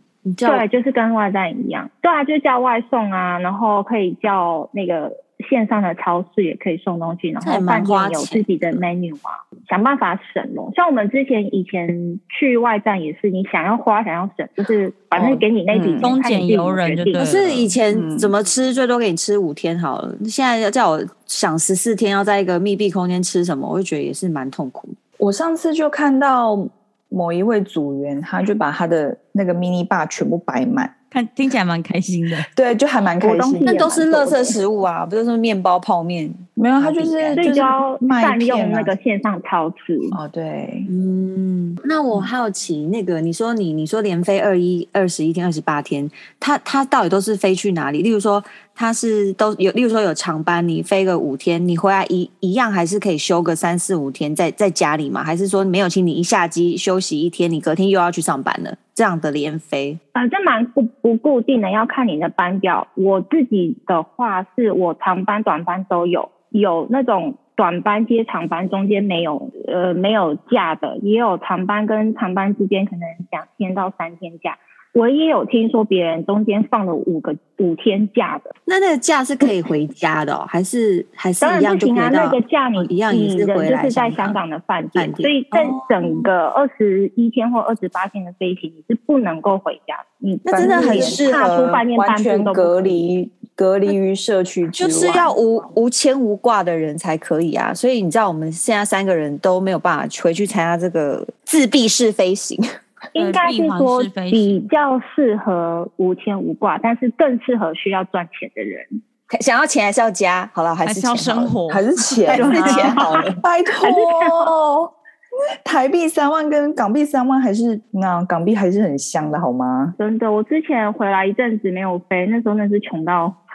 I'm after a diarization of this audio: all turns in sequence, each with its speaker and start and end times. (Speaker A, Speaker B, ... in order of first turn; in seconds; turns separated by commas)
Speaker A: 0.2-0.6, Speaker B: 0.4-17.2, Speaker A: 7.4-8.8, Speaker A: 15.2-15.4, Speaker C: 15.7-16.1, Speaker D: 16.0-17.7, Speaker A: 17.1-24.9, Speaker C: 17.9-18.3, Speaker C: 25.2-30.9, Speaker D: 31.1-32.5, Speaker C: 32.5-34.5, Speaker B: 33.2-34.4, Speaker A: 33.2-37.5, Speaker C: 36.5-39.0, Speaker B: 37.4-40.2, Speaker C: 40.1-40.9, Speaker A: 40.9-60.0, Speaker B: 60.1-78.5, Speaker A: 78.7-84.4, Speaker B: 81.4-92.8, Speaker A: 85.0-86.2, Speaker A: 90.5-91.5, Speaker C: 90.5-95.3, Speaker A: 94.8-102.6, Speaker B: 103.1-109.0, Speaker D: 103.2-104.6, Speaker A: 109.3-111.5, Speaker D: 110.8-111.9, Speaker C: 111.7-114.9, Speaker B: 112.3-113.3, Speaker A: 112.3-113.4, Speaker B: 113.8-114.4, Speaker C: 115.6-120.0, Speaker B: 120.0-123.4